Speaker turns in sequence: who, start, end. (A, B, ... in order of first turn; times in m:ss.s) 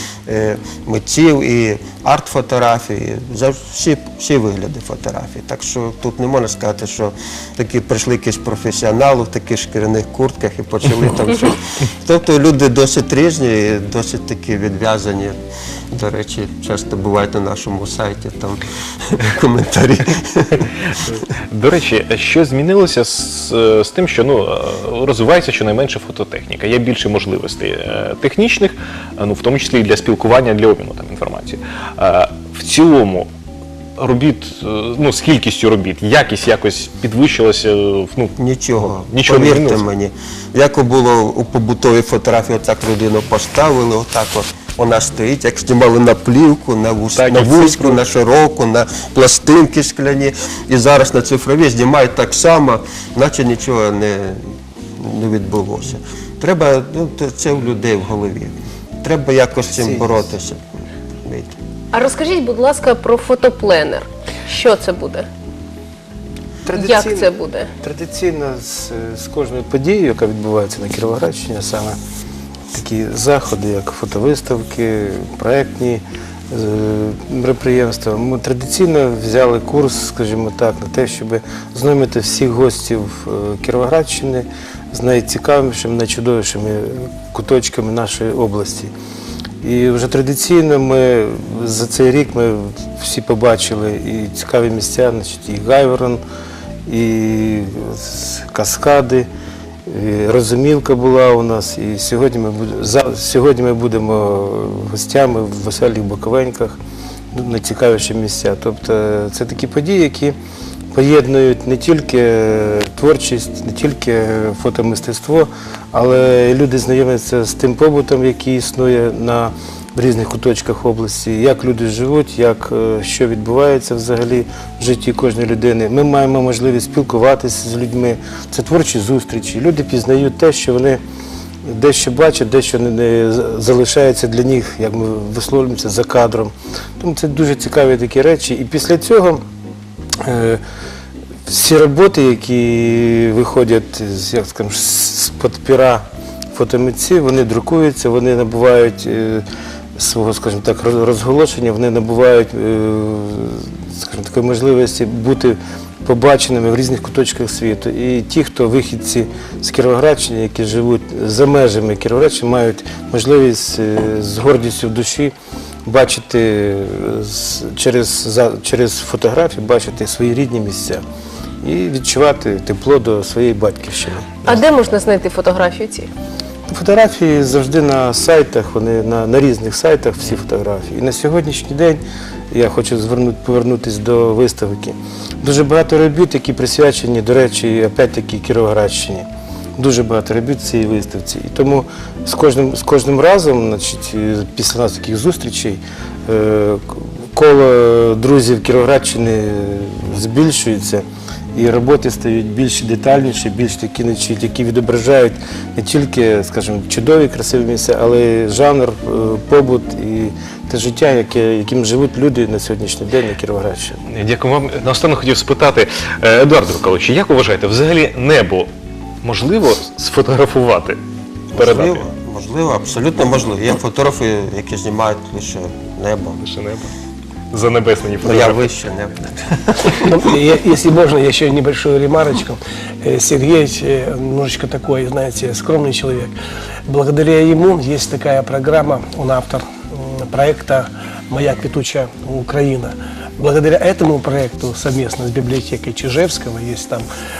0:00.3-0:15.3 A
0:15.9-0:20.7 A
0:20.9-0:33.3 B
0:34.0-0:39.9 B
0:38.4-0:54.4 A
0:47.1-0:48.0 B
0:55.0-1:00.6 A
0:59.7-1:00.3 C
1:01.2-1:01.5 A
1:01.9-1:05.3 D
1:06.6-1:12.0 C
1:06.7-1:07.7 D
1:12.7-1:28.9 C
1:29.6-1:36.2 C
1:36.8-1:39.3 C
1:39.8-1:46.8 C
1:47.3-1:50.4 C
1:50.9-2:11.0 C
2:11.6-2:19.4 C
2:20.2-2:20.6 C
2:21.4-2:29.4 C
2:30.0-2:45.3 C
2:45.8-2:51.0 C
2:51.6-2:54.6 C
2:54.4-2:56.1 D
2:56.7-3:34.0 C
3:34.1-3:38.7 B
3:39.2-3:41.0 B
3:41.5-3:46.4 A
3:41.5-3:42.1 B
3:46.4-3:46.9 B
3:47.5-3:48.7 B
3:48.2-3:50.2 A
3:49.9-3:56.3 E
3:56.9-4:07.0 E